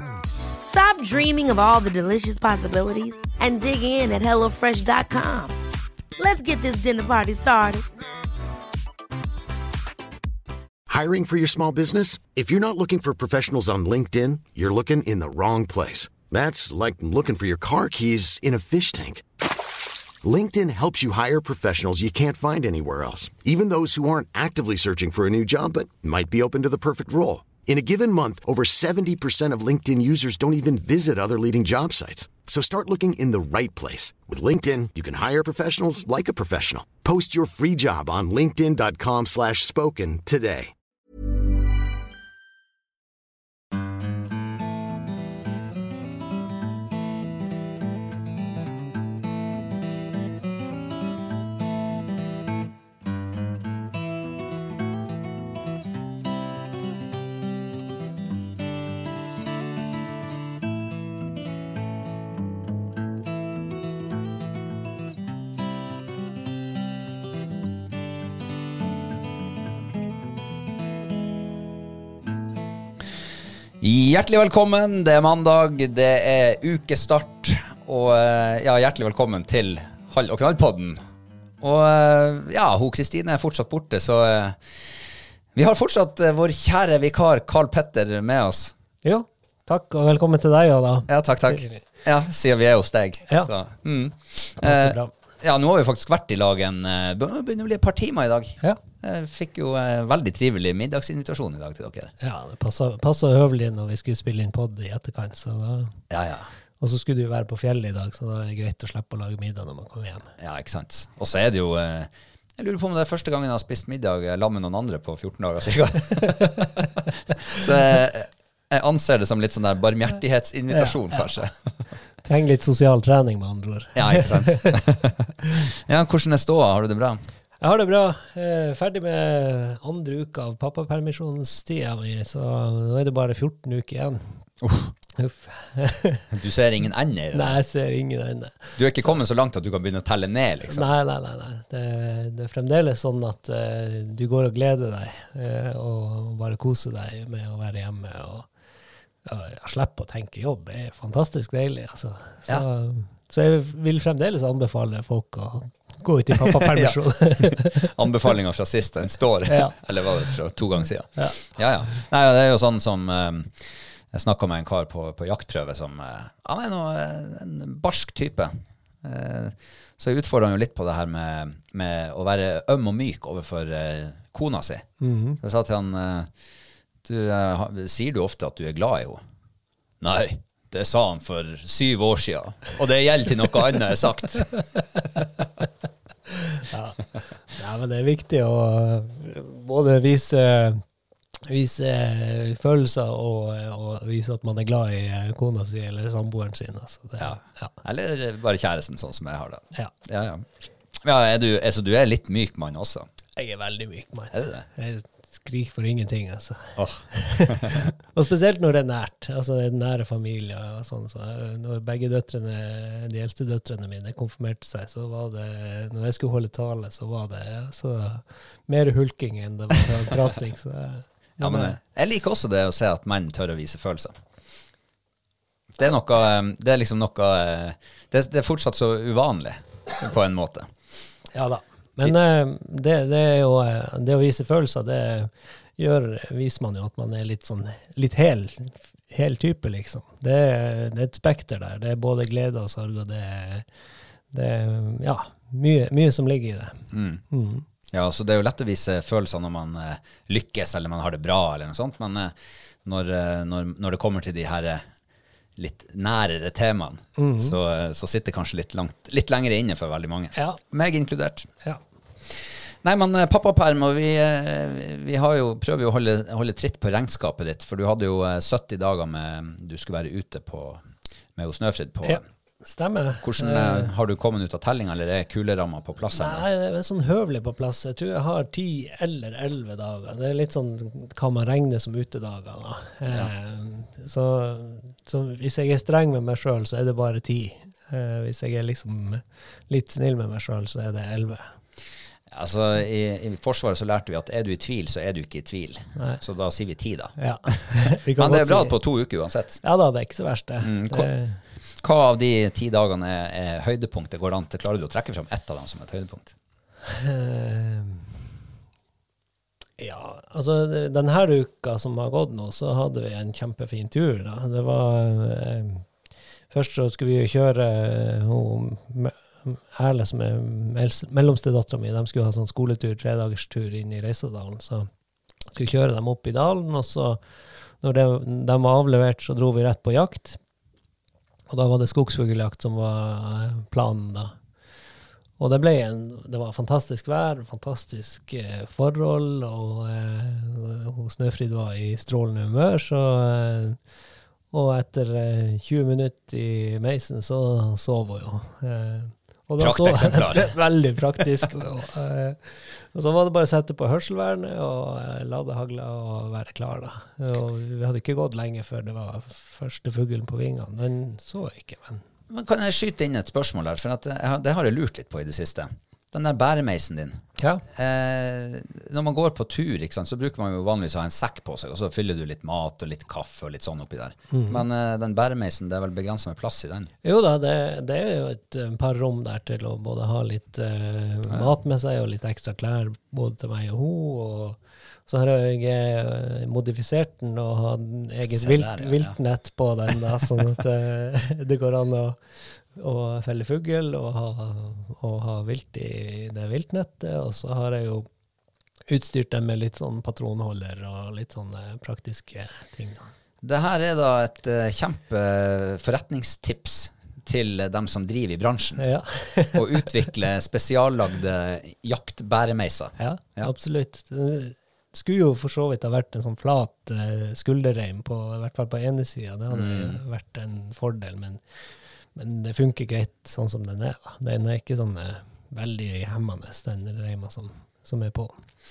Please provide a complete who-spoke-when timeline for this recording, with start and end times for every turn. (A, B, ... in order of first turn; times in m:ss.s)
0:00.6-0:05.6 A
0:06.2-0:07.8 A
0:10.9-0:19.2 B
0:20.2-0:40.7 B
1:13.8-1:21.0 C
1:21.6-1:28.7 C
1:29.0-1:31.8 D
1:31.1-1:42.1 C
1:34.6-1:35.1 D
1:42.2-1:45.9 D
1:46.1-1:46.5 C
1:46.8-1:50.3 D
1:50.4-1:56.7 C
1:57.4-2:01.5 C
2:00.7-2:01.2 D
2:02.2-2:04.7 D
2:03.9-2:07.2 C
2:07.6-2:14.4 D
2:14.6-2:14.9 C
2:15.1-2:16.2 D
2:16.3-2:17.6 C
2:17.3-2:19.1 D
2:18.8-2:20.9 C
2:20.7-2:28.5 D
2:29.2-2:37.9 D
2:36.3-2:56.3 C
2:39.5-2:40.3 D
2:41.2-2:41.5 D
2:55.0-2:55.4 D
2:57.0-2:59.2 C
3:00.0-3:05.2 C
3:06.3-3:10.8 D
3:11.5-3:17.7 D
3:17.2-3:23.1 C
3:23.4-3:41.8 D
3:24.3-3:24.6 C
3:26.8-3:27.8 C
3:41.4-3:44.2 C
3:45.8-3:50.7 C
3:51.3-4:03.6 D
4:04.3-4:07.6 D
4:06.9-4:07.2 C
4:07.9-4:14.9 C
4:15.6-4:21.5 C
4:17.2-4:17.5 D
4:20.3-4:20.6 D
4:22.2-4:32.2 C
4:32.0-4:33.9 D
4:33.2-4:36.4 C
4:36.1-4:51.5 D
4:52.3-4:59.6 C
4:56.0-4:56.2 D
4:57.2-4:58.8 D
4:59.6-5:01.4 D
5:00.6-5:01.1 C
5:01.8-5:06.3 C
5:06.8-5:08.1 D
5:09.8-5:15.9 D
5:16.5-5:24.9 D
5:25.5-5:27.2 D
5:27.8-5:30.4 D
5:31.5-5:34.3 D
5:35.4-5:43.8 D
5:44.5-6:02.0 D
5:49.6-5:50.5 C
6:02.3-6:16.9 C
6:07.4-6:07.6 D
6:14.3-6:14.6 D
6:17.0-6:38.1 D
6:28.3-6:29.2 C
6:38.9-6:43.1 D
6:43.4-6:48.8 C
6:48.8-6:49.9 D
6:49.5-6:53.5 C
6:53.0-7:01.4 D
6:59.5-7:00.0 C
7:02.1-7:08.3 D